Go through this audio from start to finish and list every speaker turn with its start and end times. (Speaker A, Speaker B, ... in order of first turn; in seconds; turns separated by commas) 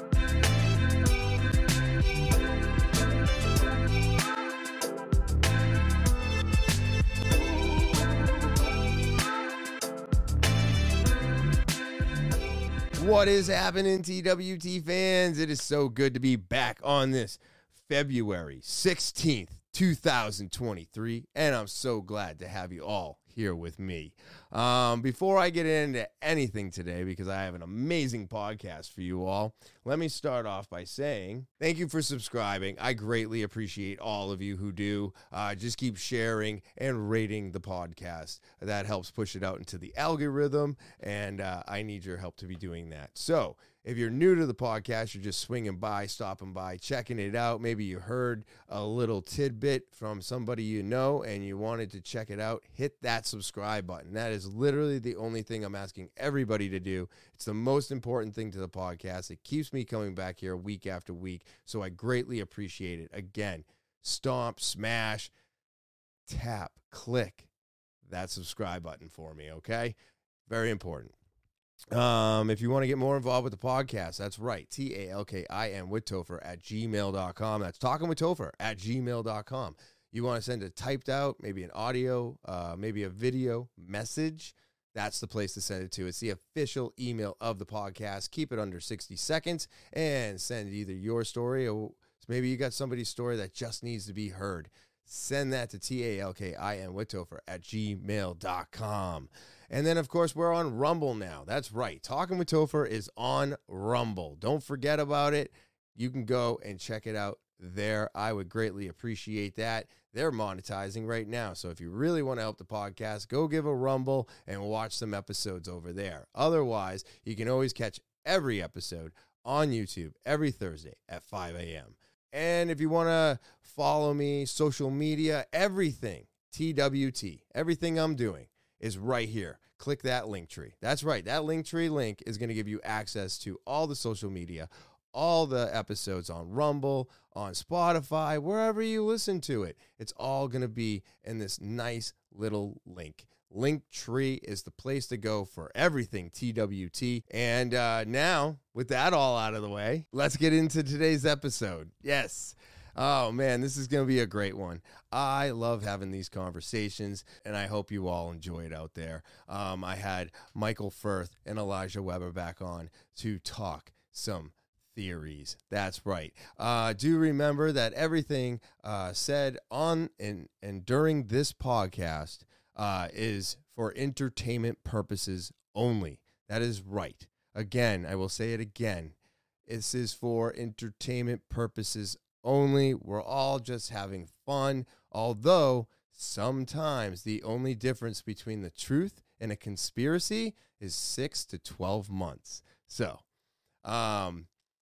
Speaker A: 13.0-65.3, Speaker A: 66.3-67.5, Speaker A: 68.0-70.0, Speaker A: 70.5-71.1, Speaker A: 71.9-179.1, Speaker A: 179.7-193.2, Speaker A: 193.8-194.5